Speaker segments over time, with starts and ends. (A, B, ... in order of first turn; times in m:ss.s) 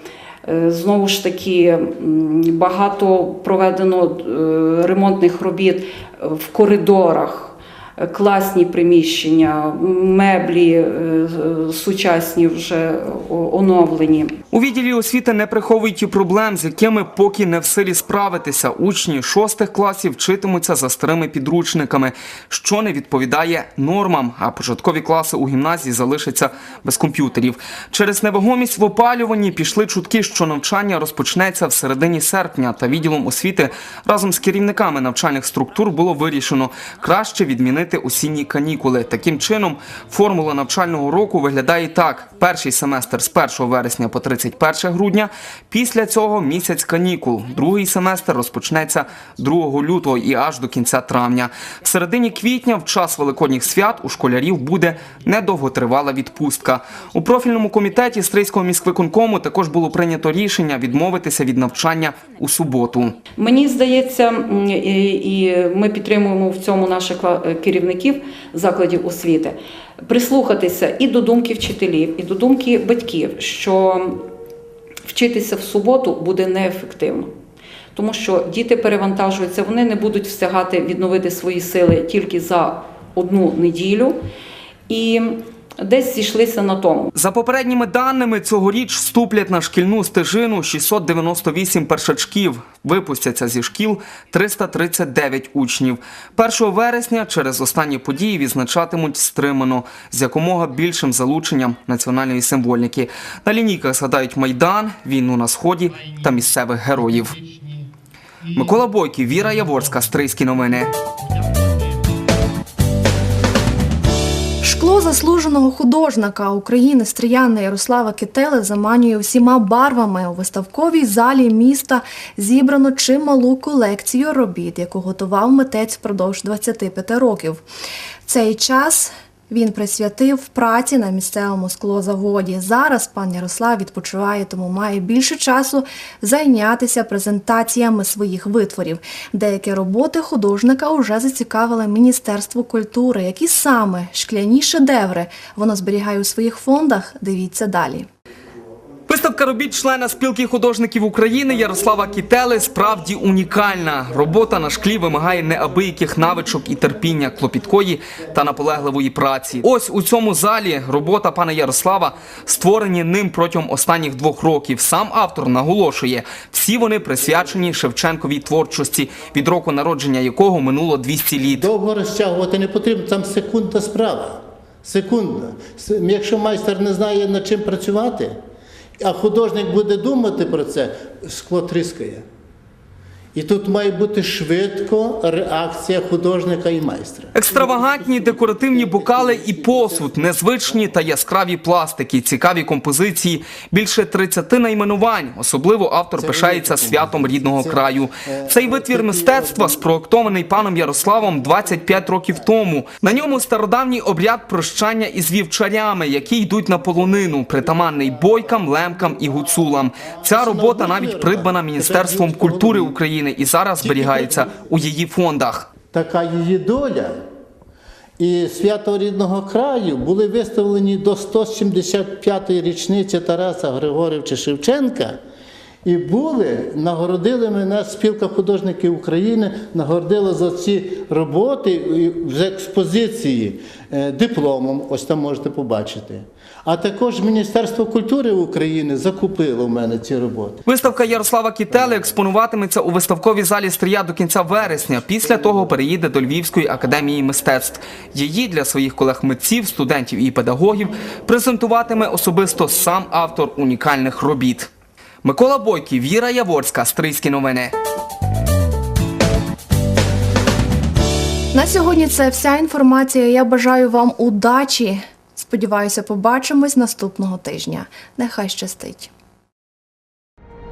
0:00.4-0:14.3 A
0:14.5-1:03.2 B
1:03.4-1:14.2 A
1:15.0-1:17.3 A
1:17.9-1:24.2 A
1:24.9-1:27.1 A
1:27.1-1:47.4 B
1:48.5-1:50.9 B
1:54.6-2:07.6 C
2:08.2-2:28.1 C
2:29.1-2:51.7 B
2:51.5-2:58.4 D
2:59.0-3:02.2 D
3:03.3-3:10.1 D
3:07.3-3:35.7 B
3:16.2-3:19.8 D
3:30.2-3:33.0 D
3:33.8-3:34.5 D
3:35.9-3:37.2 D
3:38.2-3:45.2 D
3:45.8-4:00.6 D
4:00.6-4:14.7 B
4:15.2-4:17.7 B
4:21.5-4:29.1 C